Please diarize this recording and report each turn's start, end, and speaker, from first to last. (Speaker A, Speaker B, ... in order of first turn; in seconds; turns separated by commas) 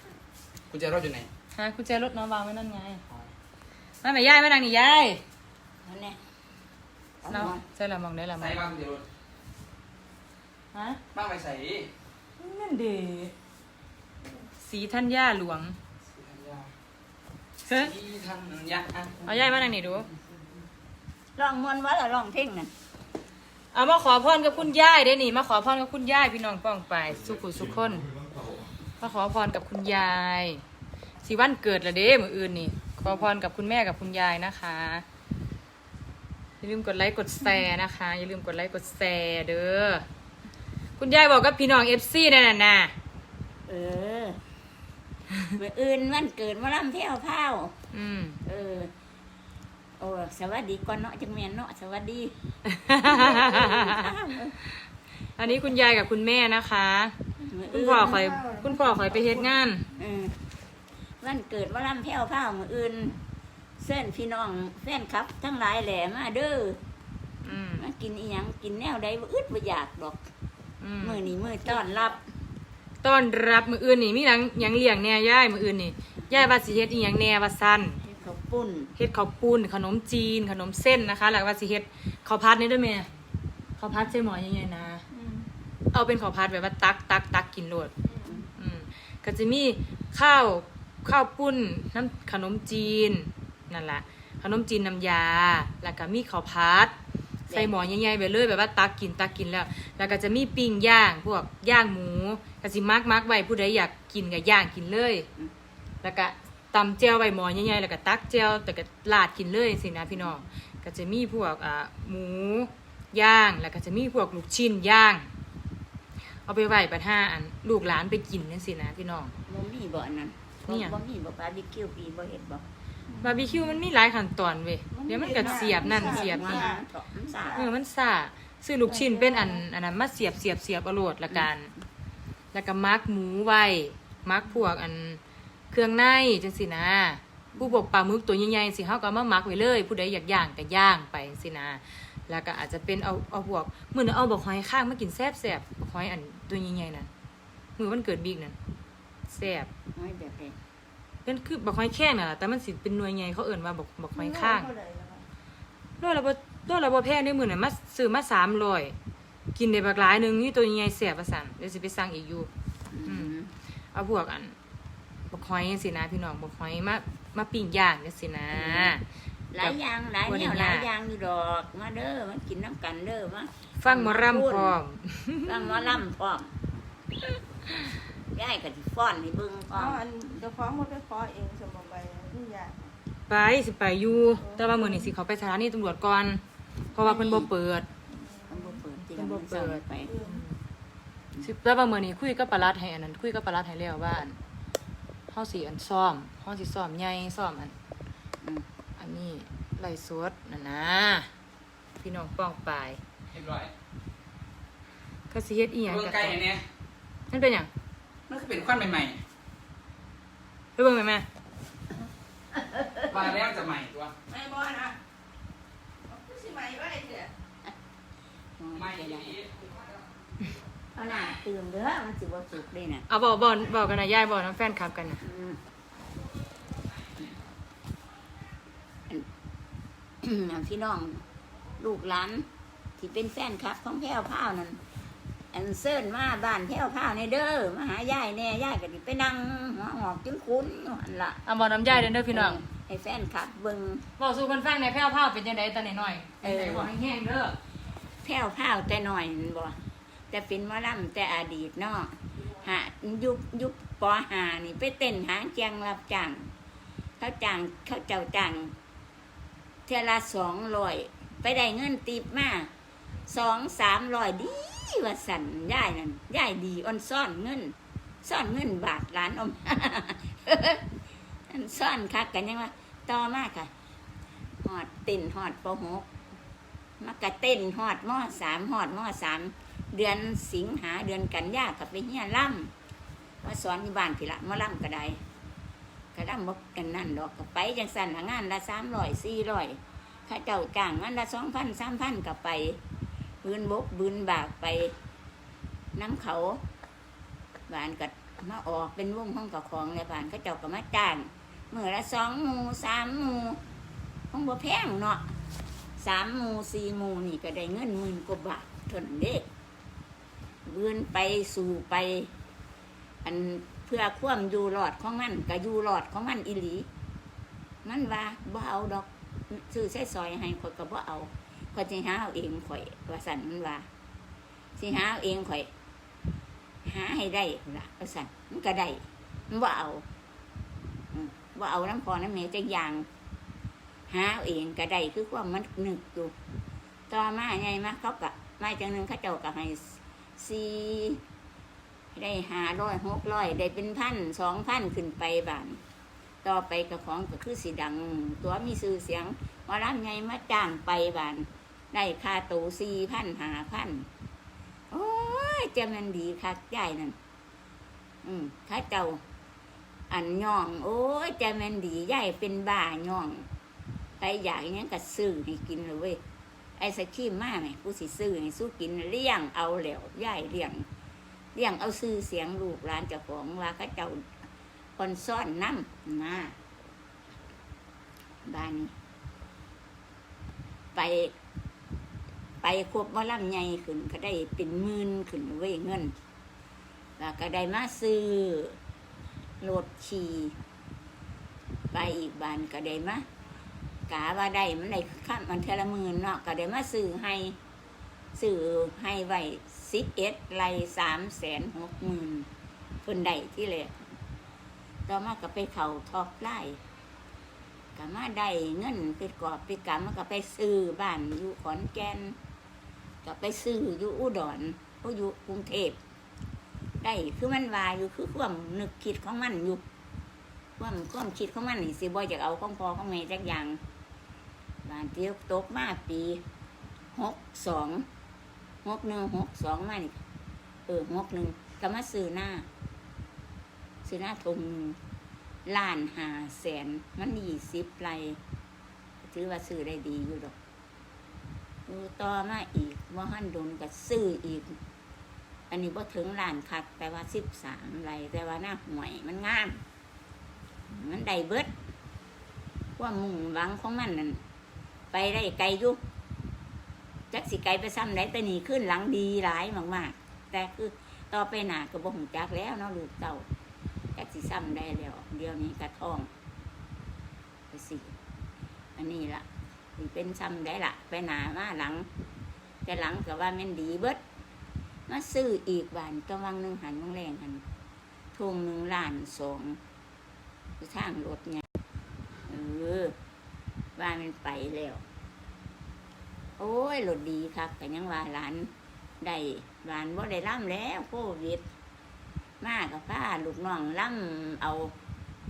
Speaker A: 0.7-1.3, Speaker B: 1.5-3.0, Speaker B: 4.0-5.2, Speaker C: 5.8-6.2, Speaker C: 7.2-7.6, Speaker B: 7.3-8.6, Speaker A: 8.4-9.1, Speaker B: 10.7-11.0, Speaker A: 11.1-11.9, Speaker B: 12.4-13.3, Speaker B: 14.6-15.8, Speaker A: 16.1-16.7, Speaker B: 17.6-17.9, Speaker A: 17.7-19.3, Speaker B: 19.2-20.1, Speaker C: 21.4-22.7, Speaker B: 23.7-28.1, Speaker B: 29.0-30.6, Speaker B: 31.2-35.0, Speaker B: 36.6-40.0, Speaker B: 41.0-42.9, Speaker C: 43.7-44.4, Speaker C: 45.5-47.7, Speaker B: 47.9-48.4, Speaker C: 48.5-48.9, Speaker C: 50.0-52.3, Speaker B: 52.7-54.1, Speaker C: 53.0-54.6, Speaker B: 55.4-57.1, Speaker C: 57.4-58.3, Speaker B: 57.7-59.9, Speaker D: 57.8-59.3, Speaker C: 60.0-60.4, Speaker C: 61.2-63.2, Speaker C: 63.8-66.8, Speaker B: 67.5-67.8, Speaker C: 67.8-70.2, Speaker B: 70.8-71.8, Speaker C: 71.0-72.2, Speaker B: 73.0-78.0, Speaker C: 78.0-79.0, Speaker B: 79.0-83.1, Speaker B: 83.8-85.0, Speaker B: 85.9-87.9, Speaker B: 88.6-96.9, Speaker C: 97.5-97.9, Speaker B: 97.5-105.3, Speaker B: 106.0-115.3, Speaker B: 116.5-119.3, Speaker C: 119.5-122.6, Speaker B: 120.7-121.0, Speaker B: 123.2-126.7, Speaker D: 124.9-126.8, Speaker C: 125.4-127.6, Speaker B: 127.5-131.7, Speaker C: 128.9-129.6, Speaker B: 132.5-135.2, Speaker B: 135.7-147.1, Speaker B: 147.8-148.6, Speaker B: 149.3-149.7, Speaker C: 149.9-150.6, Speaker B: 151.2-154.7, Speaker D: 154.2-155.2, Speaker B: 156.0-158.9, Speaker B: 159.6-162.5, Speaker C: 162.9-163.5, Speaker B: 163.1-163.3, Speaker B: 163.9-164.5, Speaker B: 165.3-169.0, Speaker C: 168.5-169.0, Speaker C: 169.5-174.8, Speaker B: 169.6-170.9, Speaker B: 173.8-175.9, Speaker C: 175.4-176.6, Speaker C: 178.3-180.4, Speaker D: 179.7-182.9, Speaker B: 183.3-186.4, Speaker D: 184.4-184.8, Speaker C: 186.9-187.5, Speaker B: 186.9-187.8, Speaker C: 188.5-190.2, Speaker B: 189.2-190.5, Speaker B: 191.4-194.4, Speaker B: 195.3-197.7, Speaker B: 199.0-201.3, Speaker B: 202.0-203.0, Speaker A: 203.3-203.7, Speaker B: 205.3-206.4, Speaker A: 205.9-206.6, Speaker B: 207.3-207.7, Speaker A: 208.3-209.2, Speaker B: 210.8-211.2, Speaker C: 212.6-213.0, Speaker A: 213.1-214.1, Speaker D: 214.3-214.9, Speaker D: 216.1-217.3, Speaker C: 218.6-219.4, Speaker A: 218.8-219.5, Speaker C: 220.9-223.1, Speaker B: 223.1-225.2, Speaker C: 225.2-225.6, Speaker C: 230.2-231.2, Speaker C: 231.8-232.4, Speaker C: 233.0-234.8, Speaker C: 235.5-244.1, Speaker B: 241.4-242.6, Speaker B: 244.2-247.6, Speaker C: 246.4-246.9, Speaker C: 248.2-249.8, Speaker C: 250.3-256.5, Speaker C: 257.2-258.8, Speaker C: 259.9-262.7, Speaker C: 263.3-270.9, Speaker C: 271.5-273.7, Speaker C: 274.6-276.1, Speaker C: 277.0-282.7, Speaker C: 283.4-285.2, Speaker C: 286.1-292.8, Speaker C: 293.4-294.9, Speaker C: 295.9-296.6, Speaker C: 297.7-303.6, Speaker C: 304.3-305.3, Speaker C: 306.0-309.5, Speaker C: 310.7-312.3, Speaker C: 313.2-316.9, Speaker C: 317.8-323.9, Speaker C: 324.8-325.7, Speaker C: 326.9-330.1, Speaker C: 331.1-333.1, Speaker C: 334.1-336.3, Speaker C: 337.1-341.2, Speaker C: 342.1-345.8, Speaker C: 346.4-354.1, Speaker C: 354.9-357.2, Speaker C: 358.2-359.2, Speaker C: 360.1-363.5, Speaker C: 364.2-366.2, Speaker C: 366.8-370.9, Speaker C: 371.6-374.3, Speaker C: 375.0-376.6, Speaker C: 378.5-378.9, Speaker C: 380.9-381.3, Speaker C: 382.6-386.1, Speaker C: 387.2-388.8, Speaker C: 389.6-390.6, Speaker C: 391.9-393.2, Speaker C: 394.1-397.6, Speaker C: 398.4-402.5, Speaker C: 403.1-404.0, Speaker C: 405.1-406.8, Speaker C: 408.0-412.4, Speaker C: 413.2-416.0, Speaker C: 417.0-419.8, Speaker C: 420.8-423.8, Speaker C: 424.9-426.4, Speaker C: 427.1-428.1, Speaker C: 428.8-430.2, Speaker C: 430.9-432.7, Speaker C: 434.1-435.0, Speaker C: 435.7-438.4, Speaker C: 439.2-440.6, Speaker C: 441.9-444.8, Speaker C: 445.7-449.8, Speaker C: 450.9-451.7, Speaker C: 453.0-454.4, Speaker C: 455.1-456.0, Speaker C: 457.3-463.5, Speaker C: 464.2-466.3, Speaker C: 467.7-468.1, Speaker C: 469.0-469.5, Speaker C: 470.0-472.1, Speaker C: 472.9-474.2, Speaker C: 475.1-477.6, Speaker C: 478.4-479.8, Speaker C: 480.8-481.6, Speaker C: 482.5-483.1, Speaker C: 484.0-485.0, Speaker C: 486.6-491.7, Speaker C: 492.6-494.9